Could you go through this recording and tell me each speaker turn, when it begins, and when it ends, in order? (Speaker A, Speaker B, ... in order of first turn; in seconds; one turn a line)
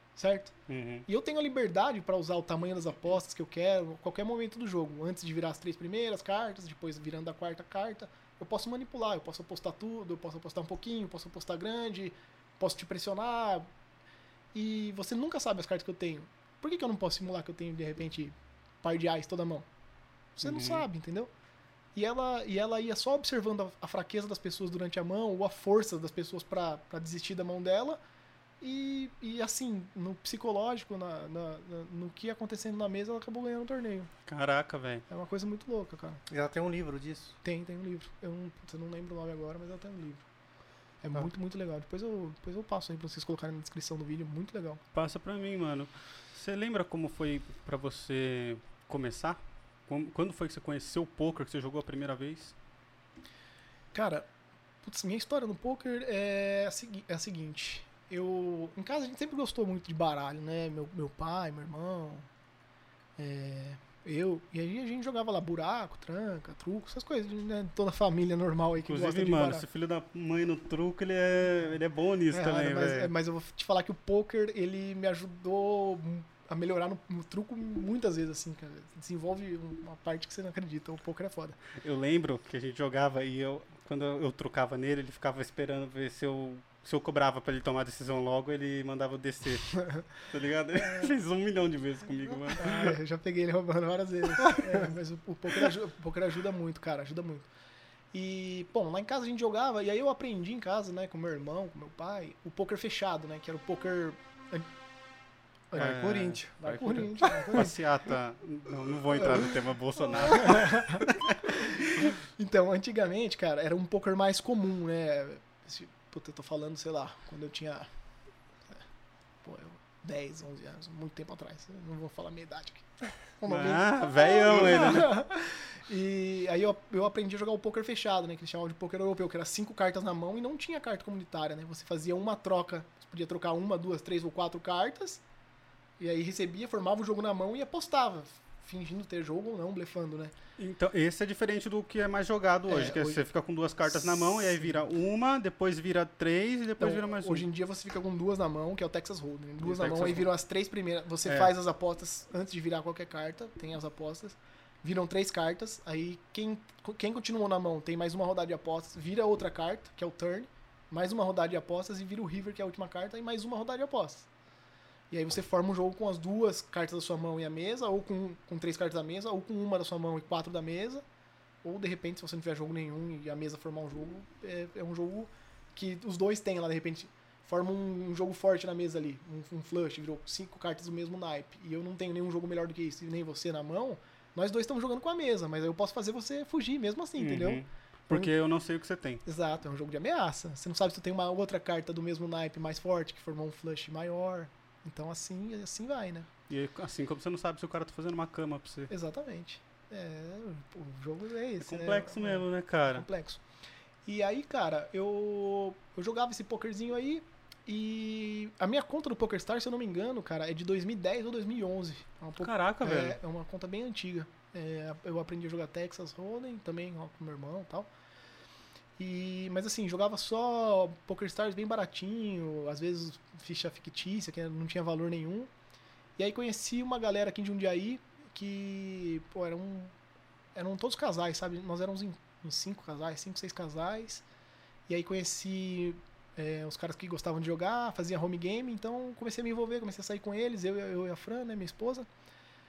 Speaker A: 0.2-0.6
Speaker B: 0.7-1.1
Speaker A: 1.1-13.7
Speaker A: 14.5-19.7
Speaker A: 20.4-21.3
Speaker B: 20.4-20.9
Speaker A: 21.9-28.0
Speaker A: 28.6-34.1
Speaker B: 34.3-35.0
Speaker A: 35.1-36.2
Speaker C: 36.3-37.4
Speaker A: 37.4-40.3
Speaker A: 41.0-44.8
Speaker B: 44.9-52.5
Speaker A: 53.9-54.3
Speaker A: 54.8-62.3
Speaker A: 63.2-69.6
Speaker B: 68.9-73.1
Speaker A: 72.3-81.6
Speaker B: 81.8-93.0
Speaker A: 89.8-90.0
Speaker A: 92.6-97.5
Speaker C: 94.5-94.8
Speaker A: 98.1-104.7
Speaker A: 105.7-107.8
Speaker C: 105.8-107.1
Speaker B: 105.8-112.1
Speaker A: 110.2-117.9
Speaker A: 119.4-135.2
Speaker B: 123.5-125.1
Speaker A: 136.0-140.3
Speaker B: 140.6-147.5
Speaker A: 142.7-143.2
Speaker A: 143.9-144.8
Speaker A: 146.8-164.3
Speaker B: 149.6-150.3
Speaker B: 151.2-151.5
Speaker A: 165.1-171.0
Speaker A: 171.6-188.3
Speaker B: 187.2-189.2
Speaker A: 189.2-196.3
Speaker B: 196.5-198.9
Speaker A: 198.9-203.4
Speaker B: 201.6-203.1
Speaker A: 204.1-217.9
Speaker B: 212.4-213.2
Speaker A: 219.0-225.5
Speaker A: 226.2-229.9
Speaker A: 230.6-234.2
Speaker A: 234.9-242.1